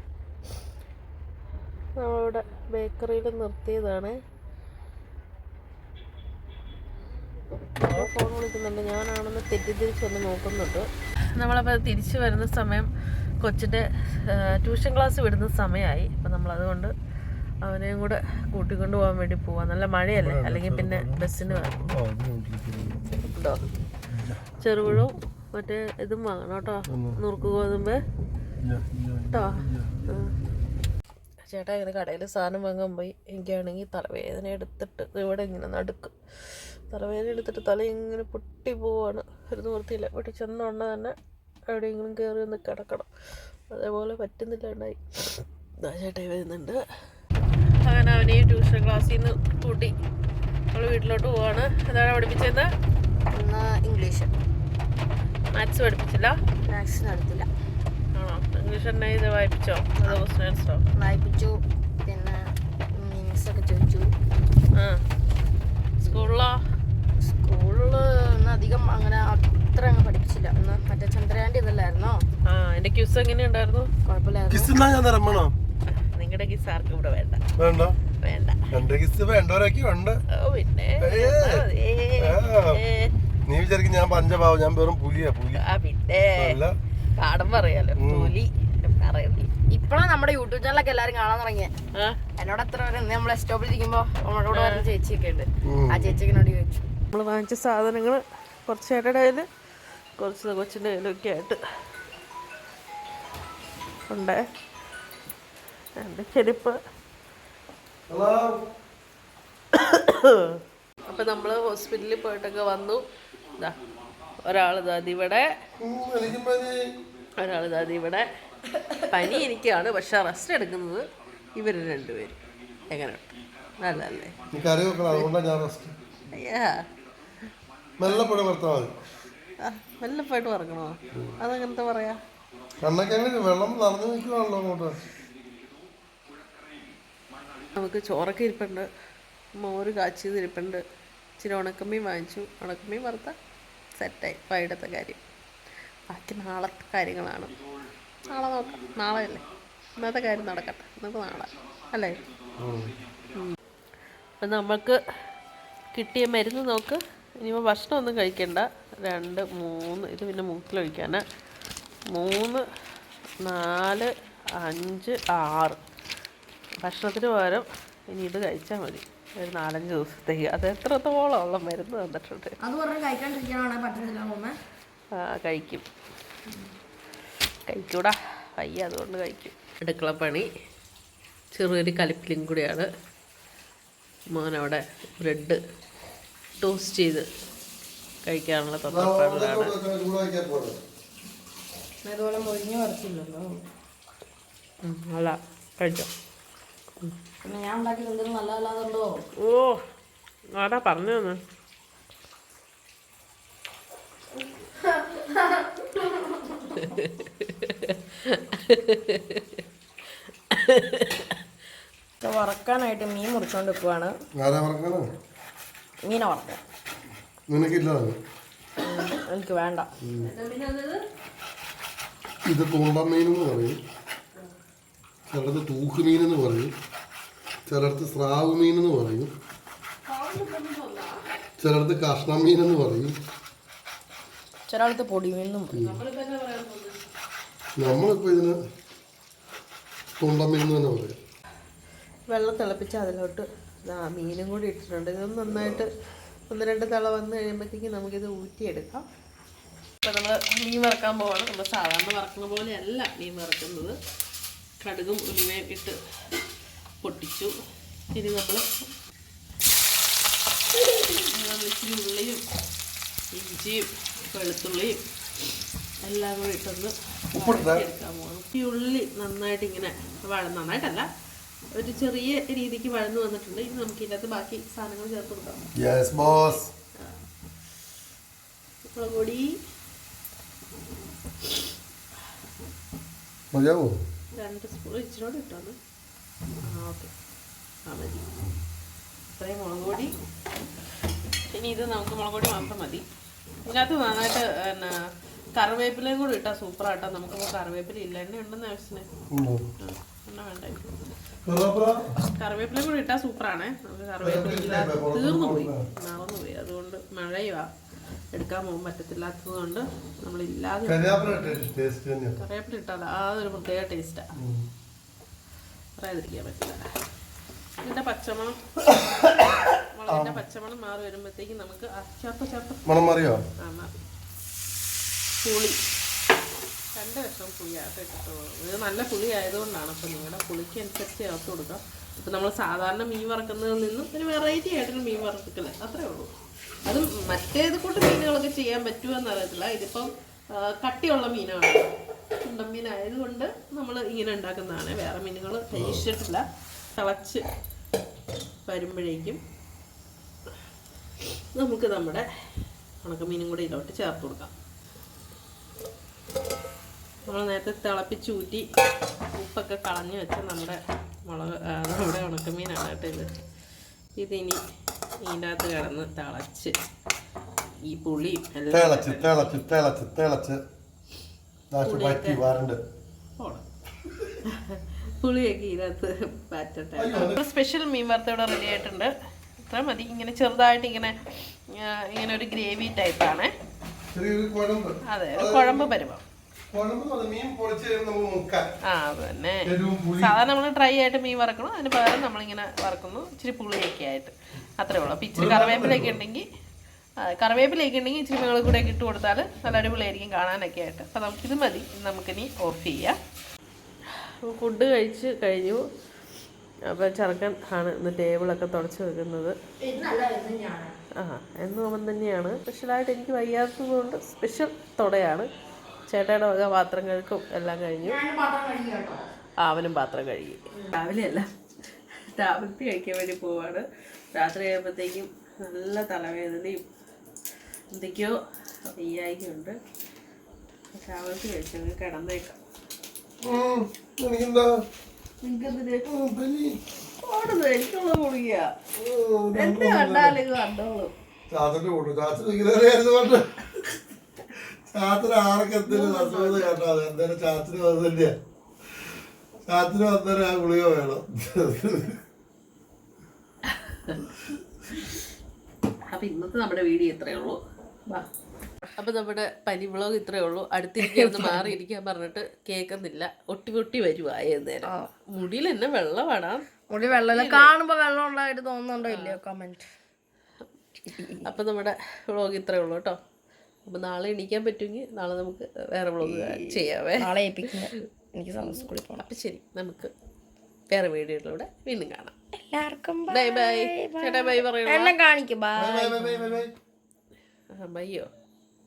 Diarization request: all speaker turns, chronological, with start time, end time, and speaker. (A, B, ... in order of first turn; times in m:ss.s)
0:02.0-0:04.2 A
0:07.8-0:12.9 A
0:13.4-0:16.9 A
0:17.6-0:21.9 A
0:20.2-0:23.0 B
0:23.3-0:23.6 A
0:24.1-0:25.0 B
0:24.6-0:28.0 A
0:26.9-0:27.2 B
0:28.6-0:30.5 B
0:29.3-0:30.3 A
0:31.5-0:36.1 A
0:36.9-0:41.2 A
0:41.7-0:43.1 A
0:43.7-0:46.8 A
0:47.8-0:49.9 A
0:50.7-0:52.7 A
0:53.3-0:54.3 C
0:55.5-0:56.4 A
0:56.6-0:57.5 C
0:58.1-1:00.8 A
1:01.0-1:02.4 C
1:02.9-1:04.1 C
1:04.8-1:05.0 A
1:06.0-1:06.6 A
1:07.2-1:12.2 C
1:12.5-1:13.9 A
1:14.1-1:14.7 C
1:14.5-1:15.6 B
1:15.9-1:17.4 A
1:17.6-1:18.0 B
1:18.2-1:18.6 A
1:18.7-1:20.2 B
1:20.3-1:23.1 A
1:21.0-1:21.6 B
1:22.2-1:22.8 B
1:23.5-1:25.6 B
1:25.6-1:26.6 A
1:26.4-1:26.7 B
1:27.2-1:29.5 A
1:28.0-1:28.3 B
1:29.7-1:31.7 C
1:32.4-1:36.9 C
1:34.5-1:34.8 A
1:35.6-1:36.2 B
1:37.1-1:39.5 A
1:40.2-1:41.6 A
1:44.1-1:44.4 A
1:46.0-1:46.8 A
1:48.1-1:48.6 B
1:49.7-1:53.0 A
1:54.4-1:55.5 A
1:55.8-1:56.8 B
1:57.4-1:58.3 A
1:59.1-2:03.3 A
2:03.8-2:04.4 A
2:04.5-2:06.0 B
2:06.3-2:06.8 A
2:08.0-2:08.9 B
2:08.0-2:08.3 A
2:09.6-2:12.2 A
2:12.8-2:15.1 B
2:17.7-2:18.9 A
2:19.6-2:20.8 A
2:21.4-2:23.4 A
2:24.0-2:25.2 A
2:26.1-2:27.5 A
2:28.3-2:29.4 A
2:30.0-2:32.2 A
2:32.6-2:33.0 B
2:34.4-2:35.0 A
2:36.0-2:41.2 A
2:42.1-2:42.6 A
2:43.4-2:45.8 A
2:46.8-2:52.6 A
2:52.6-2:54.6 C
2:55.1-2:55.8 A
2:57.7-3:00.5 A
3:01.5-3:02.9 A
3:04.3-3:05.6 A
3:06.6-3:07.3 A
3:08.2-3:09.8 A
3:08.9-3:10.8 B
3:12.0-3:13.6 C
3:14.8-3:16.1 A
3:17.4-3:19.2 C
3:19.4-3:19.8 A
3:20.5-3:21.4 A
3:24.4-3:26.9 C
3:26.7-3:29.6 A
3:30.5-3:31.4 A
3:32.2-3:34.2 C
3:34.4-3:35.1 B
3:36.0-3:36.6 C
3:37.5-3:38.2 B
3:38.8-3:39.9 C
3:40.0-3:40.3 B
3:40.2-3:41.0 A
3:42.5-3:43.8 B
3:45.3-3:46.7 B
3:47.7-3:49.3 B
3:50.1-3:51.3 A
3:51.6-3:53.2 B
3:54.7-3:55.8 C
3:55.7-3:56.0 B
3:55.8-3:57.0 A
3:57.8-3:58.6 B
4:00.2-4:01.2 B
4:02.3-4:05.9 A
4:06.5-4:09.1 A
4:10.0-4:14.0 A
4:14.8-4:16.0 A
4:17.0-4:17.5 A
4:18.1-4:18.9 A
4:20.8-4:22.4 A
4:23.3-4:25.0 A
4:26.0-4:31.1 A
4:27.3-4:27.9 B
4:31.7-4:35.6 A
4:35.8-4:36.7 B
4:38.9-4:39.6 A
4:43.5-4:43.9 B
4:44.4-4:45.8 A
4:46.6-4:47.1 A
4:47.9-4:48.3 A
4:49.4-4:50.1 A
4:51.5-4:53.0 A
4:53.7-4:55.0 A
4:55.6-4:59.1 A
4:59.3-4:59.7 B
4:59.8-5:00.9 A
5:01.4-5:02.1 B
5:02.2-5:07.7 A
5:04.2-5:05.9 B
5:08.3-5:11.6 A
5:10.8-5:12.4 B
5:12.4-5:14.3 A
5:14.4-5:14.7 B
5:16.0-5:16.9 A
5:17.8-5:18.6 A
5:18.9-5:20.4 B
5:19.9-5:22.8 A
5:22.9-5:23.4 B
5:23.6-5:23.9 A
5:25.4-5:25.8 A
5:27.0-5:36.3 A
5:36.8-5:41.9 A
5:42.4-5:47.5 A
5:45.7-5:46.1 B
5:48.7-5:49.4 A
5:51.5-5:52.3 A
5:53.0-5:54.5 A
5:57.3-5:58.7 A
5:59.3-6:03.3 A
6:04.2-6:04.6 A
6:05.2-6:06.8 A
6:07.8-6:09.6 A
6:08.7-6:10.6 B
6:11.7-6:12.8 B
6:11.8-6:12.4 A
6:13.4-6:13.6 A
6:14.1-6:14.4 B
6:14.4-6:23.5 A
6:17.0-6:17.4 B
6:24.1-6:25.9 B
6:25.0-6:26.2 A
6:26.7-6:28.7 B
6:28.8-6:36.5 A
6:29.6-6:30.4 B
6:35.4-6:36.2 B
6:37.2-6:43.2 A
6:44.4-6:45.8 A
6:46.9-6:49.6 A
6:49.8-6:50.9 C
6:51.2-6:55.5 A
6:56.1-6:58.2 A
6:58.0-6:59.2 C
6:59.6-7:01.5 A
7:02.1-7:06.9 A
7:07.9-7:08.4 A
7:08.9-7:09.8 A
7:10.9-7:12.6 A
7:13.4-7:14.8 B
7:15.4-7:16.1 A
7:16.0-7:16.8 B
7:17.2-7:18.7 A
7:19.0-7:20.4 B
7:19.6-7:21.1 A
7:21.5-7:28.4 B
7:25.8-7:26.7 A
7:29.7-7:32.2 B
7:33.7-7:34.2 A
7:36.1-7:37.6 A
7:39.0-7:47.7 A
7:41.0-7:41.7 C
7:44.8-7:45.1 C
7:46.9-7:49.9 C
7:49.0-7:49.4 A
7:51.1-7:51.4 C
7:51.2-7:53.2 A
7:53.9-7:58.0 A
7:56.2-7:59.3 C
7:58.7-8:00.1 A
8:00.9-8:02.3 A
8:02.6-8:06.4 C
8:03.3-8:05.1 A
8:05.8-8:06.7 B
8:07.8-8:08.3 A